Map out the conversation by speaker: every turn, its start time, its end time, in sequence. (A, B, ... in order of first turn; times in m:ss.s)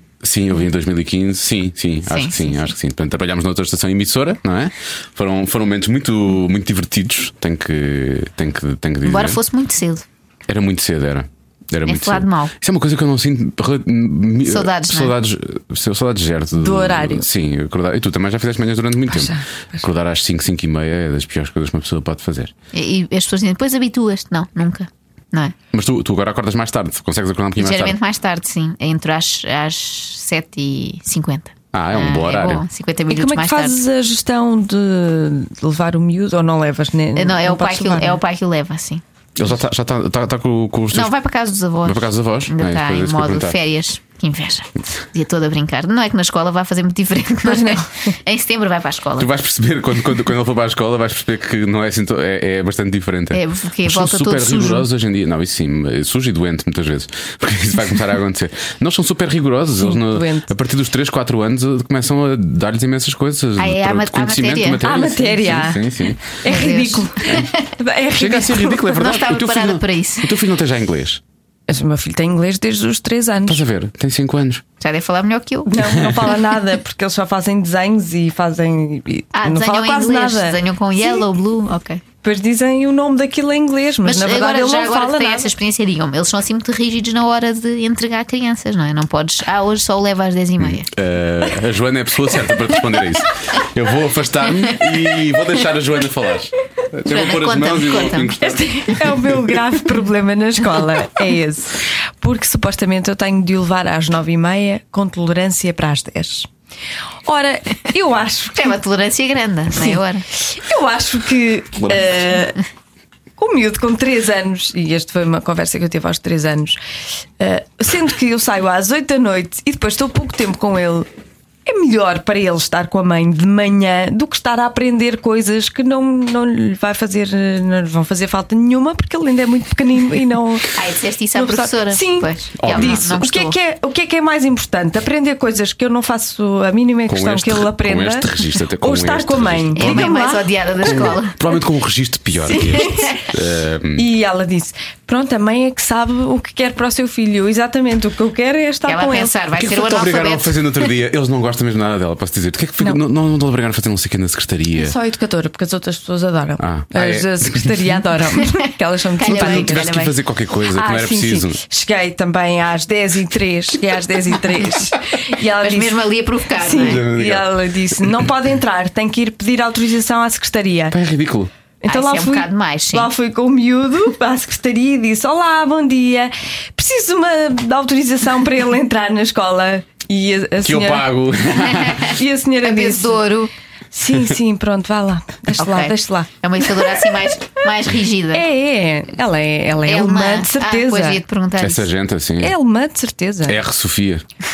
0:00.2-0:09.4 A
0:02.1-0:02.7 B
0:09.0-0:10.0 B
0:10.5-0:22.5 A
0:11.9-0:12.5 B
0:14.4-0:15.2 B
0:16.6-0:17.3 C
0:19.1-0:19.4 C
0:22.7-0:25.5 B
0:25.7-0:28.0 A
0:27.6-0:33.8 B
0:31.7-0:32.6 A
0:33.1-0:38.2 C
0:37.2-0:39.0 B
0:39.4-0:41.1 A
0:40.9-0:49.3 B
0:41.8-0:43.6 A
0:47.4-0:48.1 C
0:49.2-1:06.2 A
0:53.3-0:54.9 B
0:59.8-1:00.5 C
1:03.6-1:04.8 B
1:04.8-1:08.9 C
1:06.4-1:07.7 B
1:08.2-1:11.2 A
1:08.9-1:10.3 B
1:11.7-1:13.6 C
1:13.5-1:14.6 A
1:14.8-1:15.7 B
1:15.7-1:21.2 C
1:15.8-1:16.3 A
1:19.3-1:22.0 B
1:22.2-1:25.5 C
1:24.0-1:30.9 B
1:30.6-1:39.2 A
1:37.0-1:38.3 B
1:38.4-1:46.5 C
1:47.2-1:48.8 C
1:48.6-1:50.2 B
1:49.8-1:52.6 C
1:53.4-1:56.8 C
1:57.4-2:01.1 C
2:01.7-2:10.8 C
2:10.7-2:13.6 B
2:11.3-2:20.5 C
2:12.6-2:13.1 A
2:17.1-2:20.1 A
2:19.8-2:21.4 B
2:20.8-2:24.1 A
2:22.4-2:23.2 C
2:24.0-2:29.3 C
2:28.9-2:30.7 B
2:29.6-2:35.0 A
2:34.8-2:51.0 C
2:36.6-2:38.0 A
2:39.2-2:39.9 B
2:39.3-2:41.6 A
2:45.6-2:47.0 B
2:46.8-2:47.5 A
2:50.9-2:51.5 A
2:51.8-3:01.1 C
2:51.9-2:53.1 B
3:00.6-3:02.2 A
3:01.8-3:02.1 B
3:02.0-3:03.2 C
3:02.6-3:03.5 B
3:03.9-3:07.0 C
3:05.6-3:08.5 B
3:08.3-3:11.2 C
3:09.9-3:11.9 B
3:11.6-3:12.6 A
3:12.4-3:13.6 C
3:13.4-3:14.2 A